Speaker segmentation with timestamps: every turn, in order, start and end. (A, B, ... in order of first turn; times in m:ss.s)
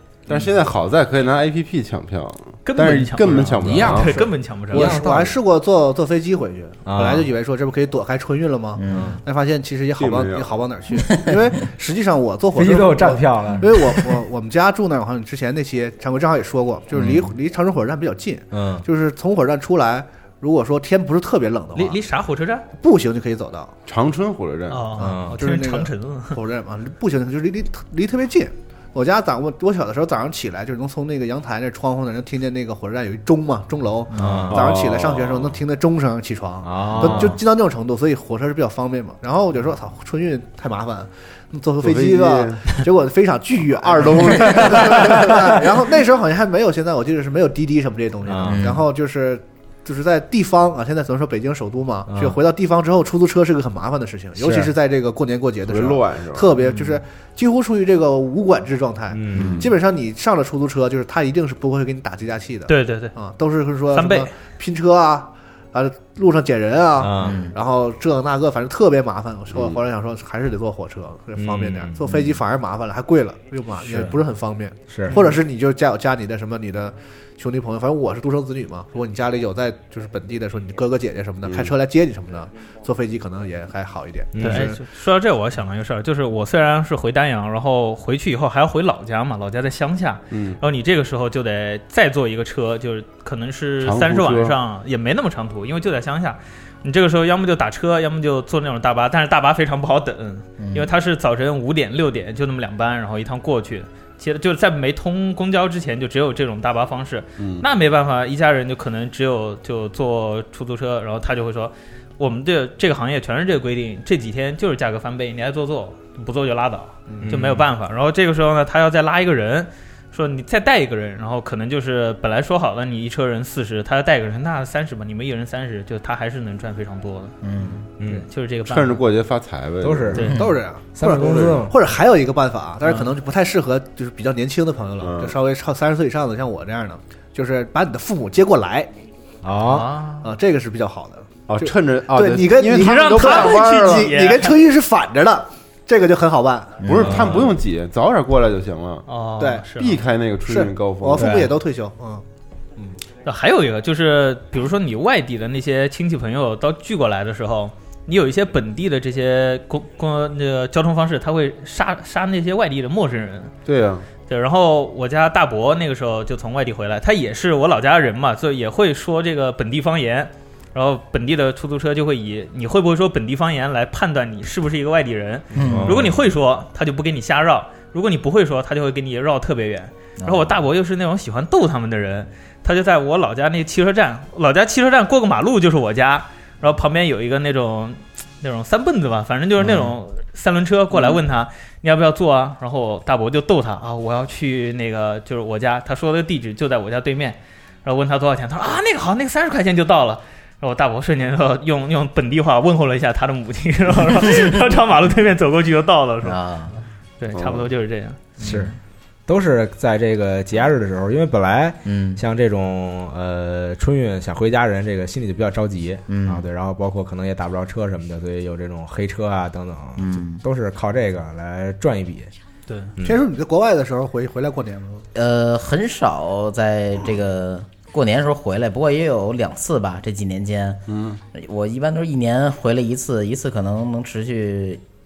0:00.3-0:04.1 A
0:02.6-0:05.0 B
0:03.5-0:05.4 C
0:04.7-0:22.0 D
0:06.9-0:07.3 C
0:08.8-0:09.2 E
0:08.9-0:09.2 C
0:10.0-0:10.6 A
0:11.1-0:11.4 E
0:12.6-0:14.3 C
0:17.0-0:17.3 C
0:18.5-0:18.8 C
0:21.8-0:22.7 B
0:22.8-0:23.7 D
0:23.9-0:24.9 A
0:24.7-0:26.4 B
0:25.0-1:24.8 D
0:25.0-0:25.4 C
0:34.2-0:34.6 C
0:34.5-0:35.6 A
0:36.6-0:37.4 C
0:41.8-0:42.8 A
0:44.0-0:45.3 A
0:44.5-0:45.7 C
0:48.2-0:48.8 C
0:48.4-0:48.8 E
0:52.1-0:52.4 C
0:54.4-0:54.7 C
0:55.7-0:56.6 A
0:56.6-0:57.0 B
0:59.1-0:59.6 C
0:59.4-0:59.7 A
1:02.7-1:03.1 B
1:03.9-1:04.3 B
1:07.0-1:07.5 C
1:07.2-1:07.5 E
1:11.4-1:12.4 C
1:13.8-1:14.2 C
1:14.9-1:15.2 C
1:21.4-1:21.7 A
1:24.3-1:24.7 C
1:24.4-2:07.4 B
1:30.3-1:30.6 A
1:33.8-1:34.6 A
1:40.6-1:40.9 E
1:47.4-1:47.6 A
1:57.2-1:57.7 C
2:07.4-2:07.8 E
2:08.0-2:08.3 C
2:08.1-2:09.0 B
2:08.7-2:10.3 A
2:09.8-2:11.8 C
2:10.3-2:18.9 D
2:15.0-2:15.4 A
2:19.4-2:19.9 C
2:19.6-2:20.3 B
2:20.2-2:26.8 D
2:21.5-2:24.1 A
2:22.7-2:24.6 B
2:26.8-2:27.2 E
2:26.8-2:29.1 A
2:27.0-2:27.4 C
2:29.1-2:30.0 B
2:29.8-2:31.5 A
2:30.5-2:32.2 D
2:31.2-2:31.5 C
2:33.2-2:43.5 B
2:43.7-2:44.1 A
2:44.3-3:26.4 B
2:55.5-2:56.0 E
2:55.6-2:56.1 C
3:00.2-3:00.6 E
3:26.2-3:26.8 E
3:27.2-3:28.3 B
3:27.3-3:27.7 A
3:28.4-3:28.8 E
3:28.4-3:28.7 C
3:29.3-3:42.3 C
3:31.8-3:32.2 E
3:36.1-3:36.4 E
3:40.0-3:40.4 E
3:42.7-3:42.9 B
3:43.0-3:43.2 C
3:43.0-3:45.0 D
3:45.1-3:50.8 E
3:50.9-3:51.2 A
3:51.3-3:54.8 E